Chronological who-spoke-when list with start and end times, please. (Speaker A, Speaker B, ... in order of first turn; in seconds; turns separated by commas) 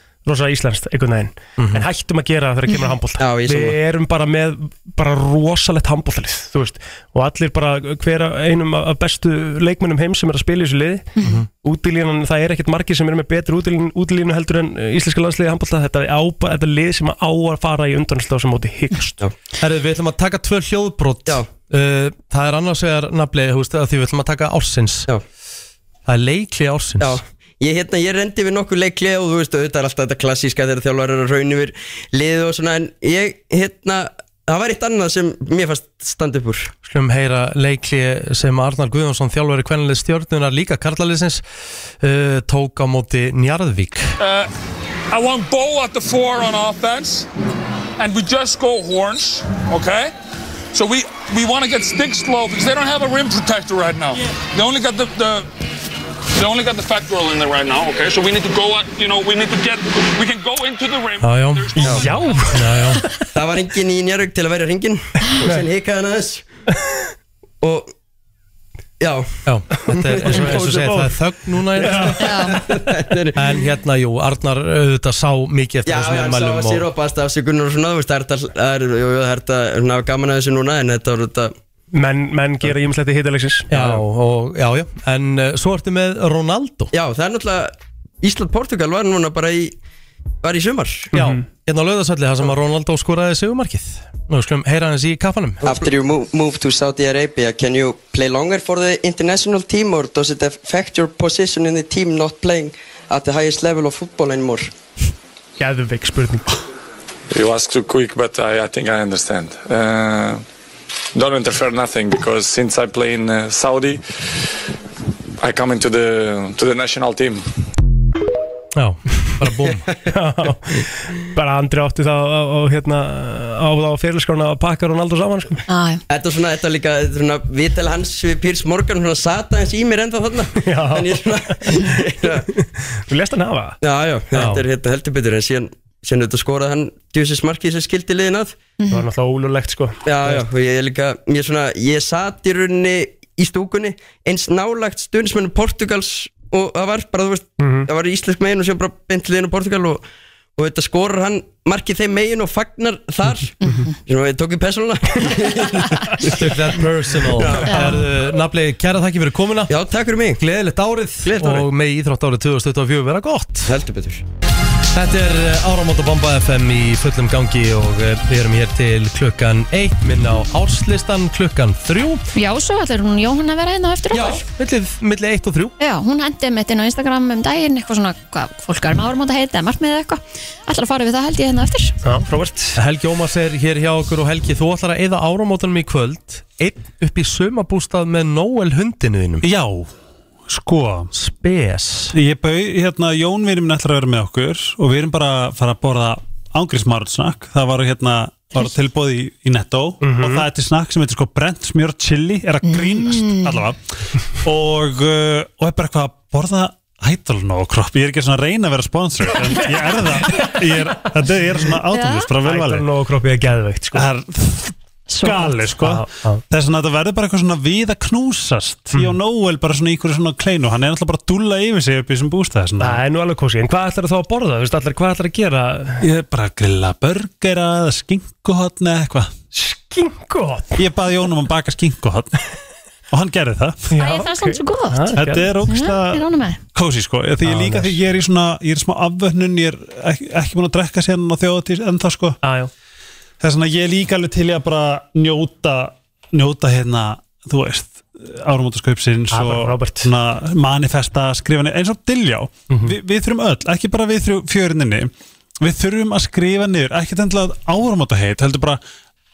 Speaker A: 0.3-19.2, Speaker B: 1.6-1.9, Speaker C: 3.2-3.8, Speaker B: 19.6-25.1, Speaker B: 26.1-27.2, Speaker C: 27.0-36.7, Speaker B: 36.9-41.4, Speaker B: 42.0-44.1, Speaker D: 44.2-44.5, Speaker D: 45.1-47.3, Speaker D: 48.0-50.1, Speaker D: 50.7-55.5, Speaker D: 56.3-62.5, Speaker B: 61.2-62.0, Speaker A: 61.8-62.7, Speaker B: 62.5-63.0, Speaker C: 63.3-66.5, Speaker C: 67.6-67.9, Speaker C: 69.0-69.3, Speaker B: 69.5-72.3, Speaker C: 69.9-71.0, Speaker A: 70.2-71.1, Speaker A: 71.8-72.7, Speaker E: 72.2-72.6, Speaker C: 72.5-73.4, Speaker B: 73.3-76.9, Speaker C: 75.8-81.5, Speaker A: 81.9-83.7, Speaker B: 83.7-86.9, Speaker C: 86.9-89.8, Speaker C: 90.4-91.1, Speaker A: 91.1-91.4, Speaker B: 91.1-95.8, Speaker C: 95.6-104.7, Speaker A: 105.6-106.6, Speaker D: 107.3-110.4, Speaker D: 111.2-114.0, Speaker D: 115.4-117.4, Speaker B: 118.8-119.9, Speaker A: 120.1-125.6, Speaker E: 125.7-126.0, Speaker C: 126.1-132.5, Speaker A: 130.6-131.9, Speaker A: 132.6-133.8, Speaker C: 133.8-138.6, Speaker E: 138.8-139.1, Speaker A: 138.9-140.4, Speaker C: 140.1-150.0, Speaker A: 147.6-147.9, Speaker C: 150.6-153.5, Speaker E: 153.7-153.9, Speaker C: 154.1-156.5, Speaker B: 156.2-159.7, Speaker C: 157.3-157.7, Speaker E: 157.7-158.1, Speaker C: 159.7-160.4, Speaker B: 160.4-163.7, Speaker C: 161.2-161.7, Speaker C: 163.7-164.2, Speaker B: 164.9-172.2, Speaker E: 172.3-174.4, Speaker B: 174.1-175.7, Speaker E: 175.8-181.9, Speaker A: 182.0-182.8, Speaker B: 182.8-189.4, Speaker F: 189.4-189.9, Speaker F: 190.5-191.1, Speaker B: 191.1-192.1, Speaker F: 192.1-203.8, Speaker A: 200.0-200.4, Speaker E: 202.6-203.6, Speaker F: 204.4-212.9, Speaker E: 211.9-212.3, Speaker A: 212.4-214.1, Speaker F: 213.9-223.0, Speaker E: 215.1-215.6, Speaker A: 215.8-216.4, Speaker A: 222.8-226.0, Speaker F: 226.0-229.3, Speaker A: 229.5-230.8, Speaker F: 230.8-232.4, Speaker F: 233.1-233.9, Speaker A: 233.9-235.5, Speaker E: 234.0-236.6, Speaker F: 235.2-242.4, Speaker A: 237.4-238.0, Speaker A: 242.4-242.7, Speaker F: 243.4-255.1, Speaker A: 249.3-250.1, Speaker A: 252.7-252.9, Speaker F: 255.6-258.8